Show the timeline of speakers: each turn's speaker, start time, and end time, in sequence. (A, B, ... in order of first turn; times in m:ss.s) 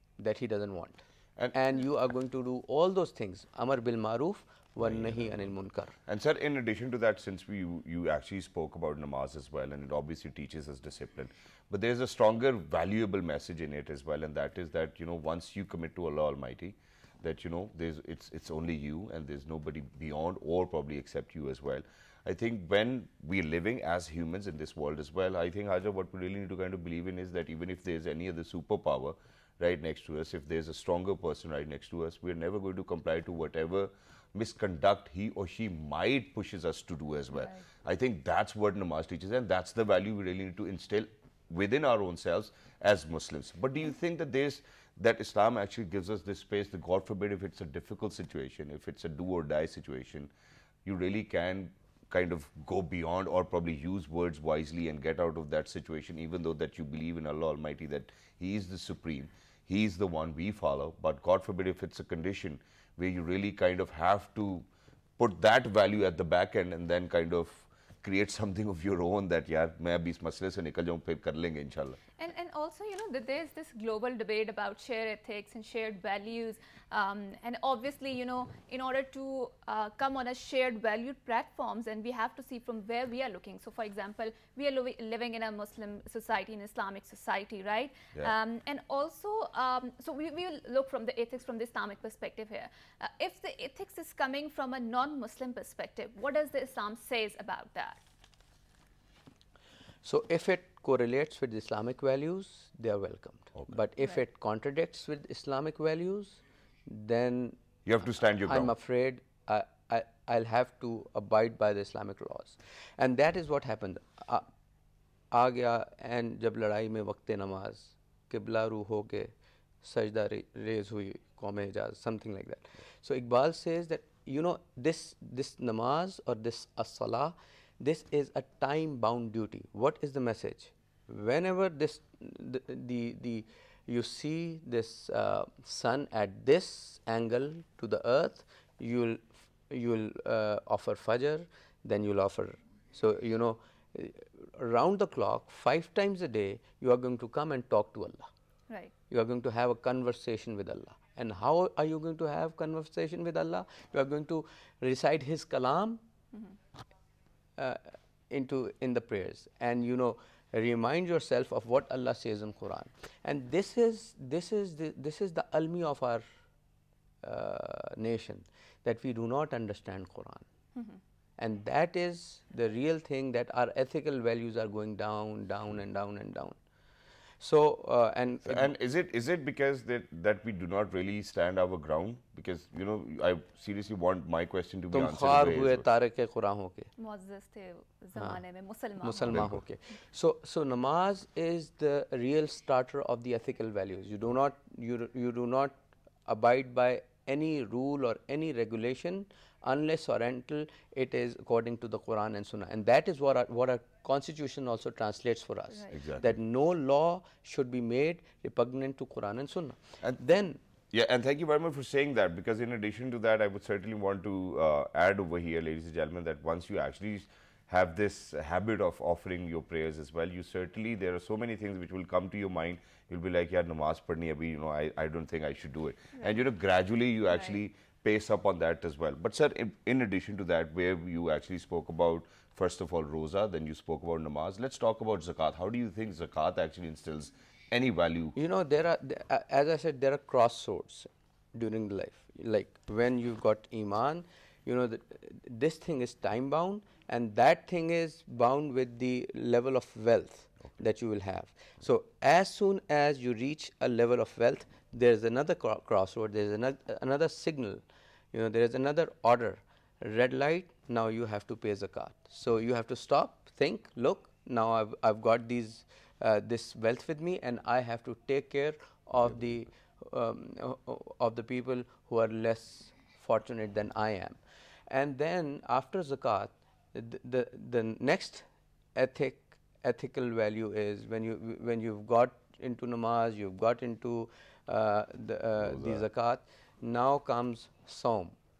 0:00.2-0:05.9 A
0:04.8-0:05.4 B
0:06.1-0:50.3 B
0:37.4-0:37.6 C
0:50.8-1:04.7 B
1:05.2-1:12.0 B
1:12.2-1:38.0 C
1:40.0-1:47.6 A
1:47.8-1:48.7 B
1:48.4-1:54.5 A
1:55.3-2:28.3 A
2:29.1-2:36.0 A
2:37.6-2:46.2 A
2:47.2-2:50.4 A
2:51.4-2:56.6 A
2:57.4-2:58.7 A
2:58.5-3:05.8 B
3:04.9-3:06.9 A
3:07.0-3:09.4 C
3:09.0-3:15.7 A
3:09.3-3:09.6 B
3:16.2-3:30.6 A
3:25.9-3:26.2 B
3:30.9-3:58.4 B
3:47.3-3:47.6 C
3:58.3-4:17.8 A
4:18.3-4:34.4 A
4:34.9-4:48.4 A
4:45.6-4:46.0 B